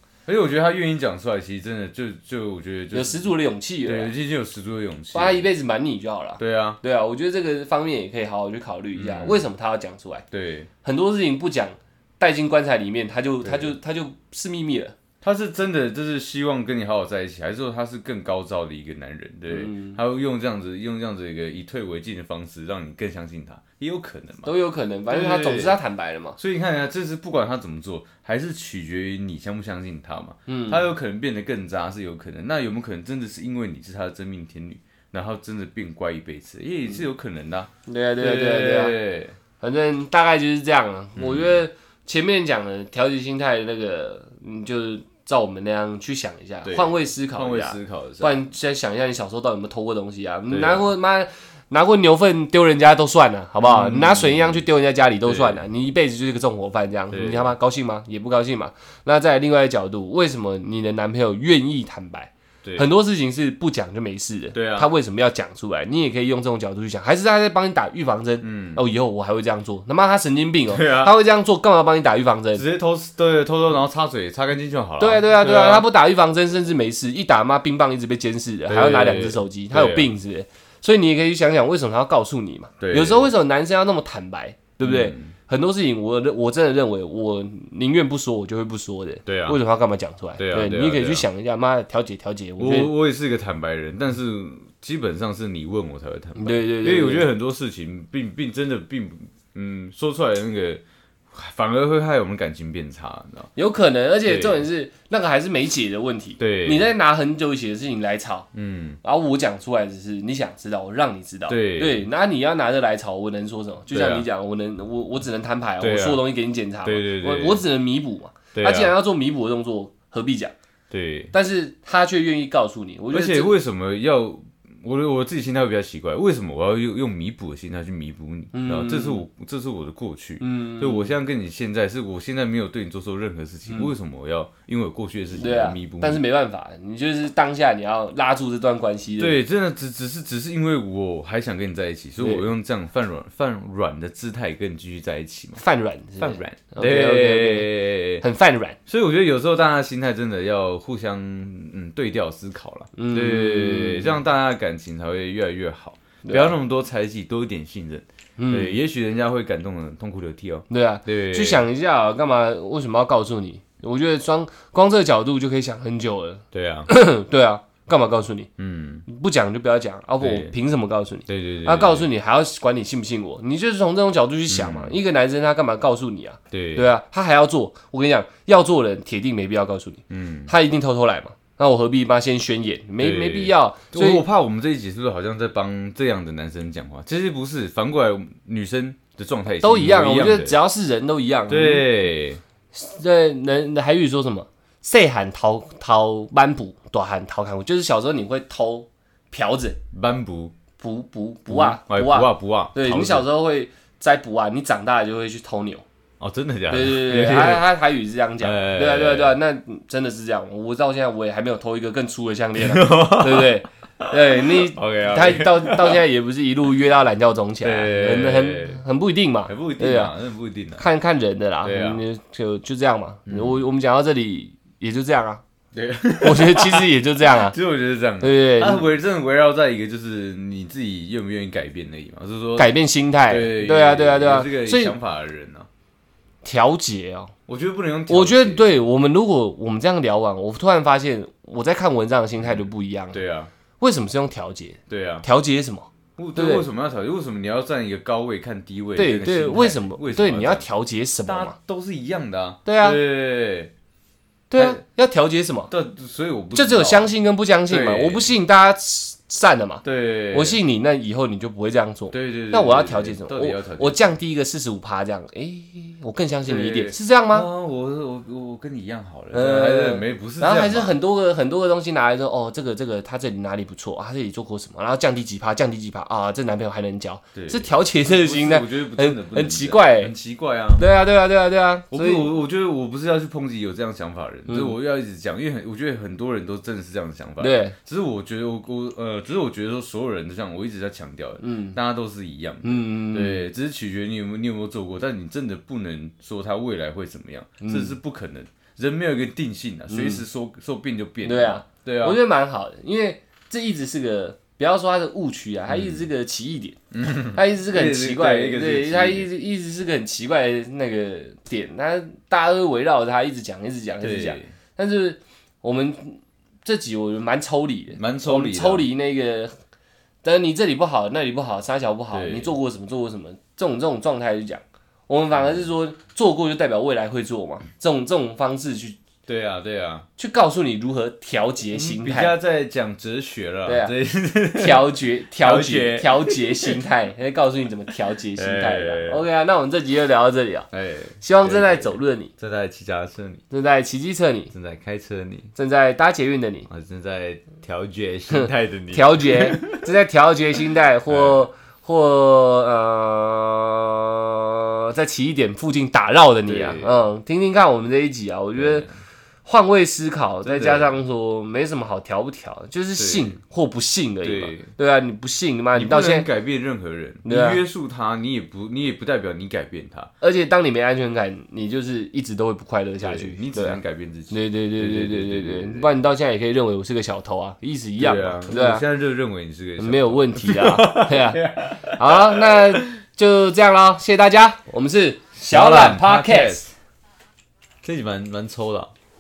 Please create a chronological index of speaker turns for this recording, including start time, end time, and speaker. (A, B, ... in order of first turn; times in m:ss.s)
0:00.3-0:03.3 A
0:02.9-0:04.1 B
0:03.8-0:05.5 A
0:05.1-0:10.2 B
0:06.4-0:06.8 A
0:08.9-0:09.4 A
0:10.3-0:10.7 A
0:10.8-0:15.0 B
0:13.4-0:13.7 A
0:15.2-0:24.5 A
0:19.5-0:20.0 B
0:24.4-0:26.4 B
0:25.1-0:25.8 A
0:26.4-0:39.4 A
0:30.5-0:30.9 B
0:37.9-0:39.0 B
0:39.6-1:12.6 B
0:41.2-0:41.6 A
0:46.6-0:48.4 A
0:50.5-0:50.9 A
0:53.6-0:54.6 A
0:55.2-0:55.6 A
0:57.1-0:57.5 A
1:04.5-1:04.9 A
1:08.4-1:08.8 A
1:10.7-1:11.2 A
1:12.6-1:15.9 A
1:15.0-1:32.9 B
1:18.7-1:20.1 A
1:22.8-1:23.3 A
1:24.8-1:25.3 A
1:29.3-1:29.6 A
1:30.4-1:31.3 A
1:32.6-1:43.5 A
1:36.4-1:37.3 B
1:43.6-1:48.5 B
1:44.2-1:44.6 A
1:46.4-1:46.9 A
1:48.5-1:49.0 A
1:49.0-2:00.5 B
1:51.5-1:52.1 A
1:53.9-1:54.3 A
1:55.8-1:56.2 A
1:56.8-1:57.6 A
1:58.6-1:59.0 A
2:00.9-2:01.3 A
2:01.3-2:03.5 B
2:03.1-2:16.2 A
2:08.5-2:09.2 B
2:10.4-2:11.1 B
2:13.7-2:13.9 B
2:15.3-2:19.4 B
2:19.2-2:25.6 A
2:22.2-2:22.5 B
2:25.6-2:27.7 B
2:26.2-2:28.2 A
2:28.2-2:28.8 B
2:28.9-2:41.6 A
2:33.0-2:34.2 B
2:36.2-2:36.5 B
2:38.4-2:38.8 B
2:40.7-2:48.5 B
2:46.5-2:46.9 A
2:48.6-2:49.0 A
2:49.1-3:04.2 B
2:50.2-2:50.5 A
2:51.3-2:52.1 A
2:54.5-2:55.0 A
2:56.5-2:56.9 A
3:00.1-3:00.5 A
3:03.0-3:10.6 A
3:09.6-3:11.8 B
3:11.5-3:12.4 A
3:12.7-3:19.8 B
3:19.9-3:20.5 A
3:20.8-3:25.8 B
3:21.5-3:23.3 A
3:26.2-3:27.7 A
3:26.7-3:40.1 B
3:28.4-3:29.4 A
3:32.6-3:36.0 A
3:37.6-3:38.8 A
3:39.5-3:40.8 A
3:40.8-3:45.4 B
3:41.6-3:42.0 A
3:43.3-3:43.6 A
3:45.7-3:52.7 A
3:46.2-3:47.6 B
3:48.2-3:48.8 B
3:52.6-3:55.0 B
3:53.3-3:55.7 A
3:56.4-3:57.3 B
3:57.5-3:58.7 A
3:58.1-4:03.2 B
4:02.4-4:03.5 A
4:03.8-4:06.7 B
4:04.9-4:05.3 A
4:06.2-4:10.6 A
4:09.0-4:11.6 B
4:11.3-4:13.7 A
4:12.7-4:13.0 B
4:14.5-4:15.7 B
4:15.7-4:17.1 A
4:16.6-4:27.5 B
4:17.7-4:18.3 A
4:19.8-4:20.6 A
4:22.1-4:24.2 A
4:26.4-4:31.0 A
4:29.3-4:40.1 B
4:37.4-4:40.8 A
4:40.8-4:42.3 B
4:41.9-5:02.2 A
4:44.5-4:44.8 B
4:47.4-4:47.8 B
4:51.4-4:51.8 B
4:52.6-4:53.4 B
4:57.6-4:58.0 B
4:59.9-5:00.2 B
5:01.2-5:06.8 B
5:05.7-5:06.1 A
5:06.9-5:09.3 A
5:07.3-5:19.5 B
5:14.0-5:14.5 A
5:18.0-5:18.9 A
5:20.2-5:29.0 B
5:22.1-5:22.5 A
5:25.4-5:25.7 A
5:29.3-5:30.1 A
5:30.2-5:32.3 B
5:31.7-5:36.8 A
5:33.7-5:33.9 B
5:34.6-5:40.7 B
5:38.3-5:39.2 A
5:40.7-5:43.4 A
5:41.2-5:42.3 B
5:43.5-5:44.5 B
5:44.5-5:45.5 A
5:45.6-5:46.7 B
5:46.7-5:49.8 A
5:48.3-5:58.9 B
5:51.1-5:51.4 A
5:56.5-5:57.0 A
5:58.6-5:58.9 A
5:59.5-6:06.3 B
6:00.4-6:00.9 A
6:03.0-6:03.4 A
6:04.2-6:04.7 A
6:05.7-6:10.1 A
6:07.2-6:07.6 B
6:10.2-6:13.8 B
6:13.0-6:15.9 A
6:14.3-6:18.8 B
6:18.0-6:23.0 A
6:19.8-6:21.4 B
6:21.9-6:26.7 B
6:25.4-6:26.7 A
6:27.8-6:28.9 A